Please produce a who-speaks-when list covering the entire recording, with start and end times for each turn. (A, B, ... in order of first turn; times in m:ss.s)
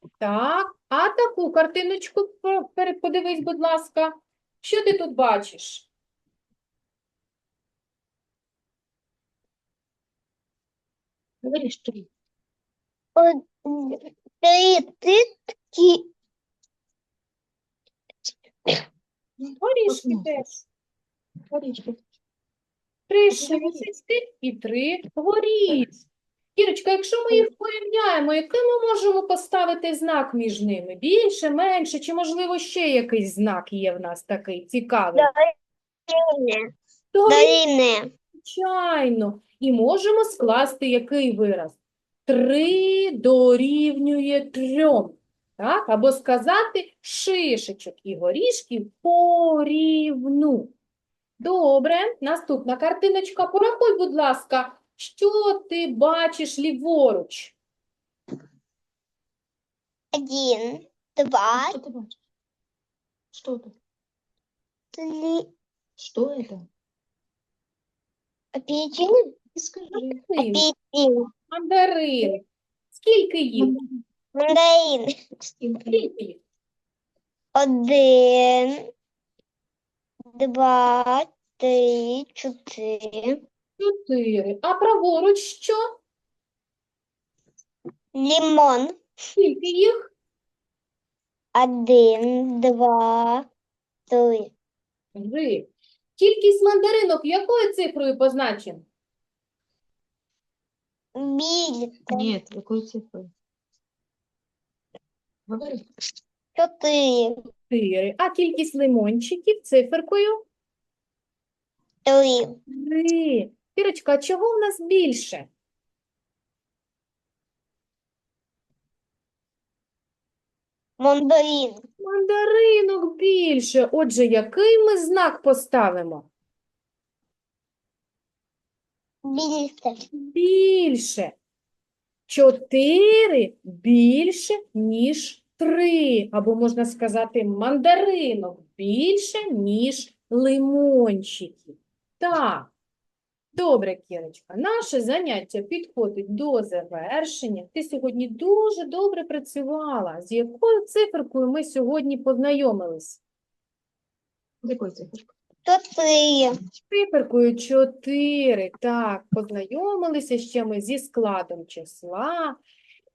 0:00.2-0:05.9 A
0:11.4-0:12.1 B
0:13.2-0:16.0 C
0:19.4-0:20.4 B
0:19.6-0:20.6 A
0:21.5-0:22.0 B
0:23.1-0:25.9 A
0:23.3-0:23.8 B
0:26.6-0:35.3 A
0:35.2-0:35.5 C
0:36.1-0:36.6 C
0:37.1-0:37.6 A
0:37.3-0:38.1 C
0:38.4-0:50.7 A
0:51.4-0:57.6 A
1:00.1-1:01.8 C
1:01.5-1:02.2 B
1:03.3-1:03.7 B
1:05.0-1:05.5 C
1:06.0-1:06.7 B
1:08.6-1:09.2 C
1:09.5-1:10.2 B
1:09.9-1:10.7 A
1:10.4-1:11.3 C
1:11.5-1:13.7 A
1:13.6-1:14.0 B
1:14.4-1:15.1 C
1:15.6-1:16.1 B
1:15.9-1:16.4 A
1:17.6-1:18.8 C
1:20.4-1:23.4 C
1:23.8-1:25.8 A
1:28.2-1:28.9 C
1:29.4-1:30.1 A
1:31.6-1:33.5 C
1:34.1-1:34.5 C
1:35.2-1:38.8 A
1:41.2-1:42.3 C
1:42.1-1:43.3 B
1:45.5-1:45.8 B
1:46.6-1:47.4 C
1:47.7-1:50.4 A
1:52.1-1:52.6 C
1:52.7-1:55.5 A
2:01.0-2:01.8 C
2:02.0-2:06.3 A
2:09.3-2:10.0 C
2:10.2-2:11.4 A
2:12.3-2:22.7 A
2:23.5-2:33.2 A
2:34.6-2:35.3 B
2:35.7-2:36.6 C
2:36.9-2:42.6 A